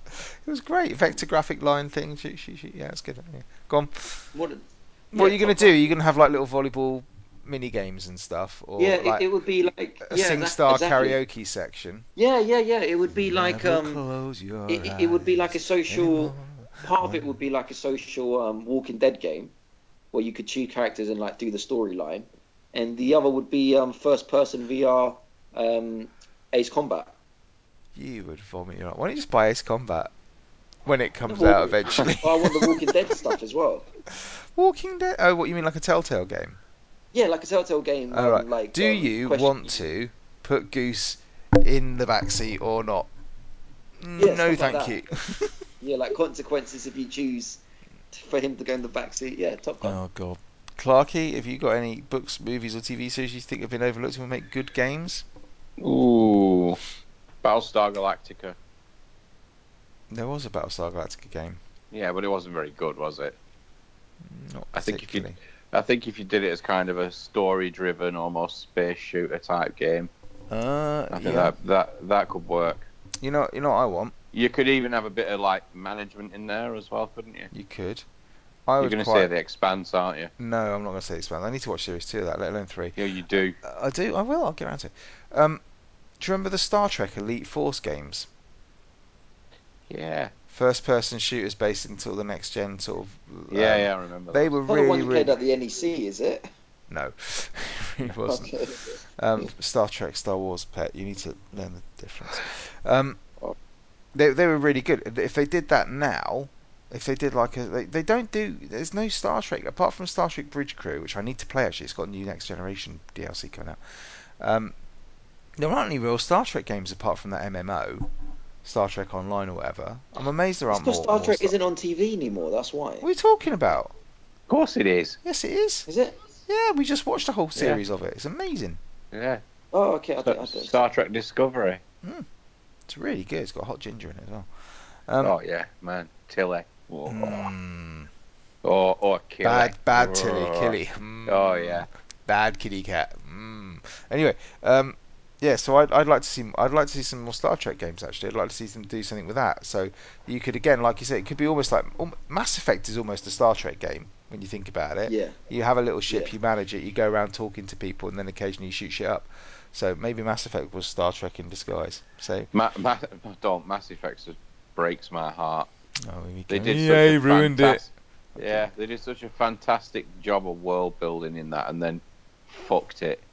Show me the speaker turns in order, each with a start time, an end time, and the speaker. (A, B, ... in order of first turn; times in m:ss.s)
0:00.1-0:04.2 A
0:04.3-0:05.8 B
0:05.1-0:09.3 A
0:08.8-0:11.2 B
0:10.0-0:12.0 A
0:12.2-0:14.0 B
0:13.1-0:17.3 A
0:14.7-0:19.5 B
0:20.1-0:27.1 B
0:27.9-0:30.1 A
0:30.8-0:33.1 A
0:31.3-0:33.8 B
0:34.2-0:36.6 A
0:37.1-0:39.8 B
0:38.1-0:43.1 A
0:44.0-0:45.6 A
0:44.2-0:45.0 B
0:45.8-0:50.0 B
0:49.8-0:55.2 A
0:55.8-0:56.8 C
0:57.4-0:58.6 C
1:00.1-1:01.6 A
1:01.9-1:03.4 C
1:04.2-1:05.4 A
1:04.7-1:10.1 C
1:10.5-1:11.5 A
1:11.1-1:12.9 C
1:13.2-1:14.1 A
1:14.3-1:17.5 C
1:17.5-1:18.0 A
1:18.7-1:19.3 A
1:18.8-1:20.3 C
1:20.4-1:23.0 A
1:23.0-1:23.6 C
1:23.6-1:25.6 A
1:26.2-1:28.3 A
1:29.9-1:30.3 C
1:30.5-1:35.3 A
1:33.5-1:34.5 C
1:34.7-1:36.5 B
1:36.9-1:38.5 A
1:38.2-1:39.0 B
1:39.2-1:43.2 A
1:44.1-1:54.7 A
1:55.6-1:58.1 A
1:58.6-2:01.5 A
2:00.7-2:03.0 B
2:03.0-2:03.9 A
2:04.5-2:05.2 C
2:05.2-2:05.9 A
2:05.9-2:06.1 B
2:06.5-2:08.8 A
2:07.6-2:07.8 C
2:09.1-2:09.4 C
2:09.7-2:10.8 B
2:10.2-2:11.8 C
2:12.9-2:14.5 A
2:15.1-2:15.4 A
2:15.2-2:17.5 C
2:17.1-2:18.1 A
2:18.6-2:21.9 C
2:19.4-2:42.5 A
2:35.1-2:35.4 B
2:42.5-2:45.7 C
2:46.0-2:47.8 A
2:46.5-2:53.2 C
2:48.3-2:48.7 A